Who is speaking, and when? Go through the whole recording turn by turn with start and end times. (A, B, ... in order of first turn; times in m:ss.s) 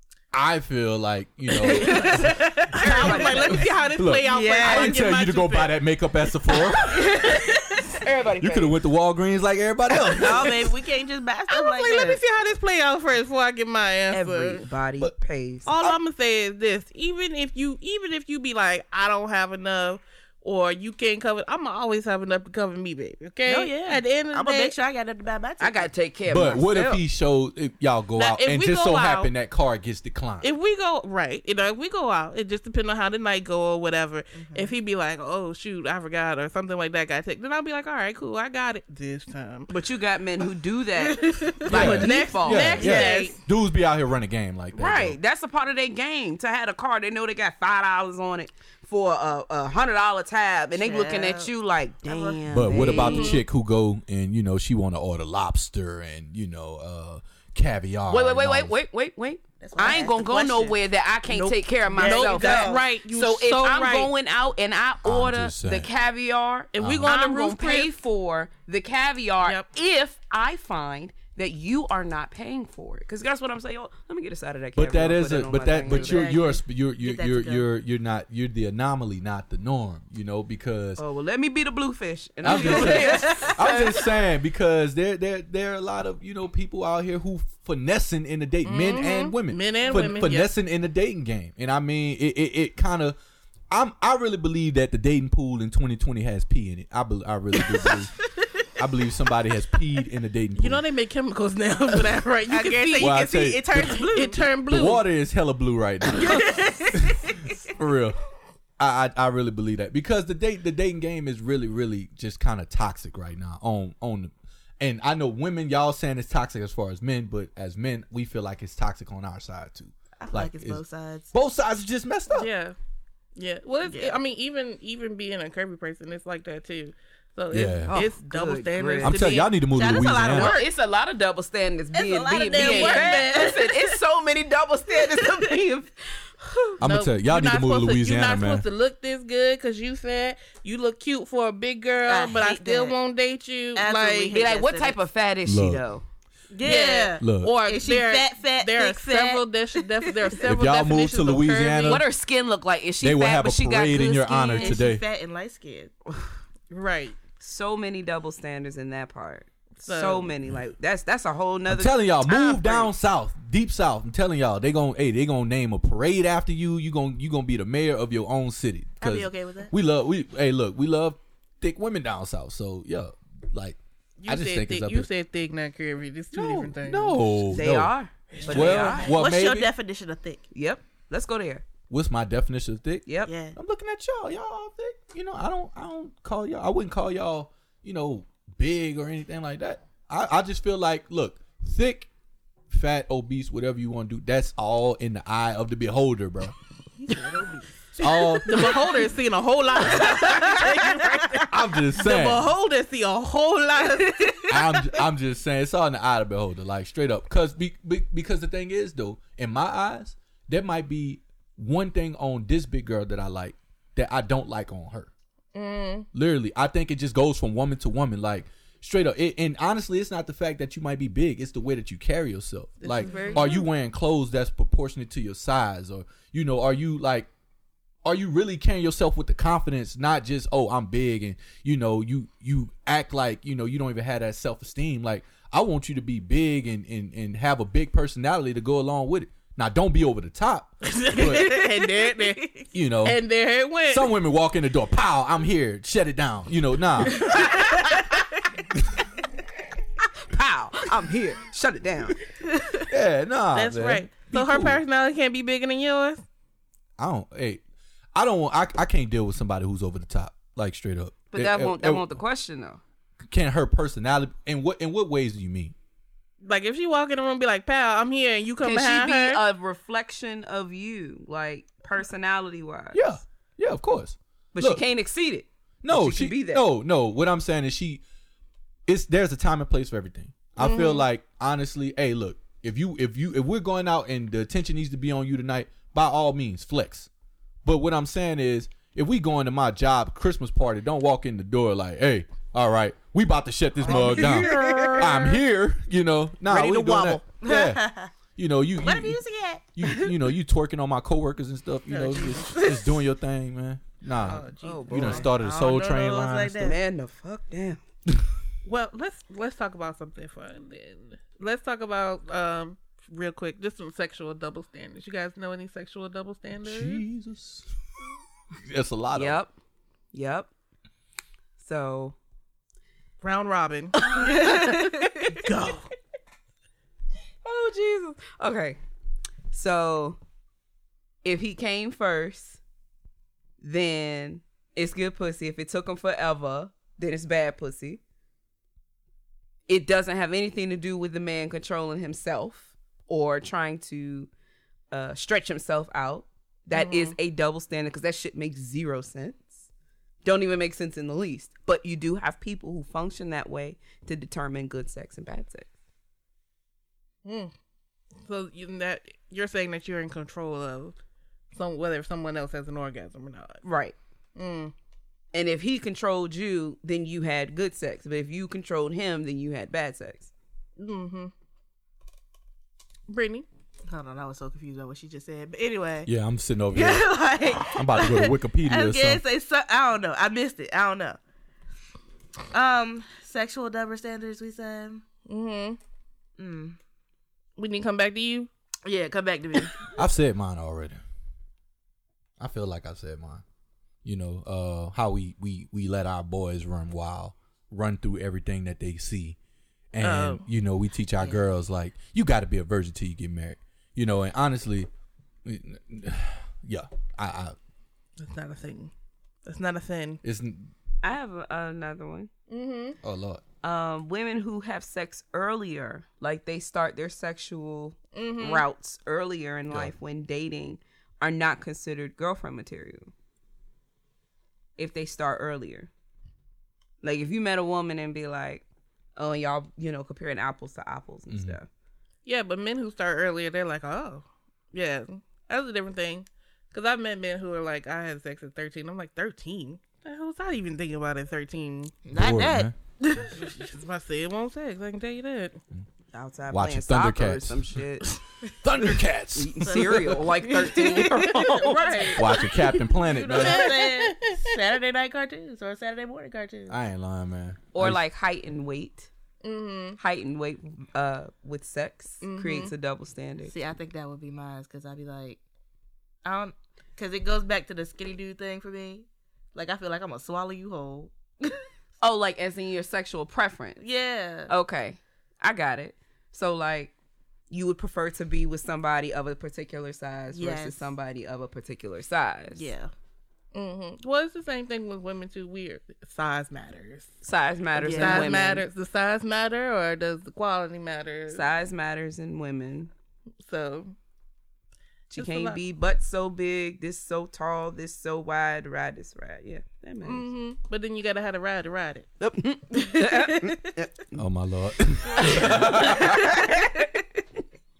0:00.3-0:07.0 A
0:01.5-0:03.6 B
0:01.8-0:05.8 C
0:02.8-0:03.6 D
0:04.3-0:05.0 B
0:06.5-0:07.3 B
0:06.9-0:08.8 D
0:08.4-0:10.6 A
0:10.0-0:12.2 B
0:11.5-0:14.6 C
0:14.1-0:15.7 D
0:15.6-0:24.8 C
0:23.4-0:25.9 B
0:25.6-0:27.0 D
0:26.3-0:30.5 A
0:28.2-0:29.3 C
0:30.4-0:39.7 C
0:34.4-0:34.7 B
0:39.7-0:43.1 D
0:41.1-0:43.3 B
0:41.4-0:43.4 C
0:41.6-0:45.2 A
0:44.7-0:53.4 D
0:50.7-0:51.5 B
0:52.0-0:53.4 B
0:52.5-0:58.7 A
0:53.0-0:53.4 C
0:58.1-1:16.4 D
0:59.6-1:02.8 B
1:01.9-1:04.1 C
1:05.0-1:05.9 A
1:06.7-1:07.9 C
1:06.8-1:07.1 A
1:14.8-1:21.0 A
1:15.9-1:17.7 B
1:21.0-1:23.8 D
1:22.4-1:33.2 A
1:22.5-1:23.9 B
1:28.6-1:30.5 C
1:33.7-1:38.1 A
1:38.8-1:40.8 A
1:40.6-1:43.2 C
1:42.5-1:44.5 B
1:43.0-1:44.1 A
1:44.1-1:45.0 C
1:44.7-1:48.2 A
1:46.2-1:47.5 B
1:48.8-2:02.5 A
2:00.2-2:01.3 B
2:02.3-2:02.7 C
2:03.4-2:09.5 C
2:03.8-2:04.2 B
2:07.5-2:08.0 A
2:07.8-2:09.4 D
2:09.0-2:10.6 A
2:09.1-2:10.7 B
2:10.3-2:16.7 D
2:11.9-2:14.0 B
2:12.5-2:13.6 C
2:16.8-2:18.6 A
2:16.8-2:24.4 C
2:22.0-2:22.9 B
2:23.7-2:25.0 B
2:24.3-2:26.0 D
2:25.4-2:25.8 A
2:26.5-2:30.3 B
2:26.6-2:32.0 C
2:27.2-2:27.5 A
2:30.4-2:32.0 A
2:31.8-2:34.8 D
2:33.0-2:35.0 A
2:34.6-2:35.9 B
2:36.7-2:37.2 C
2:37.4-2:42.6 D
2:39.8-2:40.3 C
2:41.7-2:55.1 A
2:49.0-2:49.7 B
2:54.2-2:57.2 C
2:56.3-2:57.9 A
2:57.5-2:59.1 D
2:58.4-3:00.4 B
2:58.5-2:59.7 A
2:58.6-2:58.8 C
3:00.5-3:01.6 D
3:01.9-3:12.1 A
3:03.0-3:03.3 D
3:03.2-3:03.6 B
3:12.7-3:16.5 A
3:17.0-3:17.7 B
3:18.0-3:18.7 A
3:18.0-3:24.6 C
3:20.0-3:21.4 B
3:21.5-3:22.5 A
3:23.8-3:24.5 B
3:24.5-3:35.1 A
3:35.5-3:36.1 C
3:36.1-3:47.3 A
3:42.9-3:43.5 B
3:43.0-3:43.6 D
3:48.0-4:01.6 A
4:00.8-4:04.1 C
4:01.5-4:02.1 B
4:02.7-4:03.2 A
4:03.9-4:07.7 A
4:10.2-4:12.2 D
4:12.8-4:14.8 A
4:13.5-4:16.2 C
4:17.0-4:17.6 A
4:18.1-4:22.1 A
4:21.3-4:22.8 D
4:23.3-4:25.7 A
4:26.4-4:29.4 C
4:28.6-4:33.0 D
4:32.9-4:34.8 A
4:34.5-4:36.6 D
4:35.8-4:38.0 A
4:38.9-4:47.1 A
4:40.6-4:41.0 C
4:47.6-4:59.2 A
4:53.8-4:55.3 B
4:53.9-4:55.3 C
4:56.5-4:58.1 B
4:58.8-5:00.1 B
4:59.8-5:06.7 A
5:01.9-5:03.0 B
5:04.2-5:05.0 C
5:04.6-5:05.3 D
5:04.6-5:06.8 B
5:06.6-5:07.8 D
5:08.6-5:17.0 C
5:16.6-5:17.7 A
5:18.6-5:19.4 A
5:19.1-5:19.5 D
5:20.1-5:20.5 D
5:21.6-5:22.2 D
5:23.2-5:25.9 C
5:24.0-5:25.4 B
5:27.4-5:28.8 D
5:29.5-5:30.2 D
5:31.2-5:32.6 D
5:33.6-5:38.0 D
5:39.7-5:44.3 D
5:44.9-5:49.6 D
5:46.7-5:47.2 C
5:50.2-5:55.7 D
5:57.2-5:57.5 C
5:58.2-6:01.0 C
6:01.5-6:03.6 C
6:03.6-6:03.9 D
6:04.4-6:04.7 C
6:05.3-6:10.3 D
6:10.8-6:11.3 C
6:13.1-6:13.4 C
6:13.9-6:16.1 B
6:16.0-6:19.2 A
6:16.7-6:21.2 B
6:22.5-6:25.0 B
6:25.3-6:25.8 C
6:26.4-6:26.8 B
6:27.6-6:28.5 C
6:28.8-6:29.9 B
6:29.9-6:31.0 A
6:32.4-6:33.4 A
6:34.0-6:39.4 A
6:39.9-6:44.9 A
6:40.0-6:40.4 C
6:45.4-6:47.6 A
6:48.2-6:48.9 C
6:49.4-6:50.2 C
6:50.2-6:50.7 A
6:51.0-6:52.3 D
6:52.5-6:53.0 C
6:53.0-6:53.4 A
6:53.6-7:03.1 D
6:58.1-6:58.6 C
7:04.8-7:05.9 D
7:07.0-7:08.6 D
7:09.2-7:11.7 D
7:11.3-7:11.6 A
7:12.2-7:22.0 C
7:22.0-7:23.4 B
7:22.1-7:22.7 A
7:23.3-7:25.6 C
7:26.1-7:28.1 D
7:26.5-7:27.8 A
7:28.6-7:30.2 A
7:29.3-7:32.2 D
7:29.6-7:36.8 B
7:31.2-7:32.1 C
7:32.1-7:33.7 A
7:33.3-7:34.4 C
7:36.7-7:38.0 A
7:37.7-7:39.1 D
7:39.4-7:40.0 C
7:40.0-7:43.5 D
7:42.2-7:42.7 C
7:43.5-7:45.4 B
7:46.2-7:51.6 B
7:52.0-7:53.8 D
7:53.8-7:54.5 B
7:54.5-7:56.9 D
7:57.5-8:02.7 D
8:00.3-8:00.9 B
8:02.5-8:02.9 B
8:03.5-8:07.1 C
8:07.2-8:08.6 D
8:07.8-8:08.4 B
8:07.9-8:11.4 C
8:11.3-8:12.9 D
8:13.4-8:13.9 C
8:15.1-8:20.3 D
8:15.1-8:15.6 C
8:20.0-8:22.1 C
8:22.2-8:24.2 D
8:24.1-8:26.4 A
8:25.1-8:27.0 D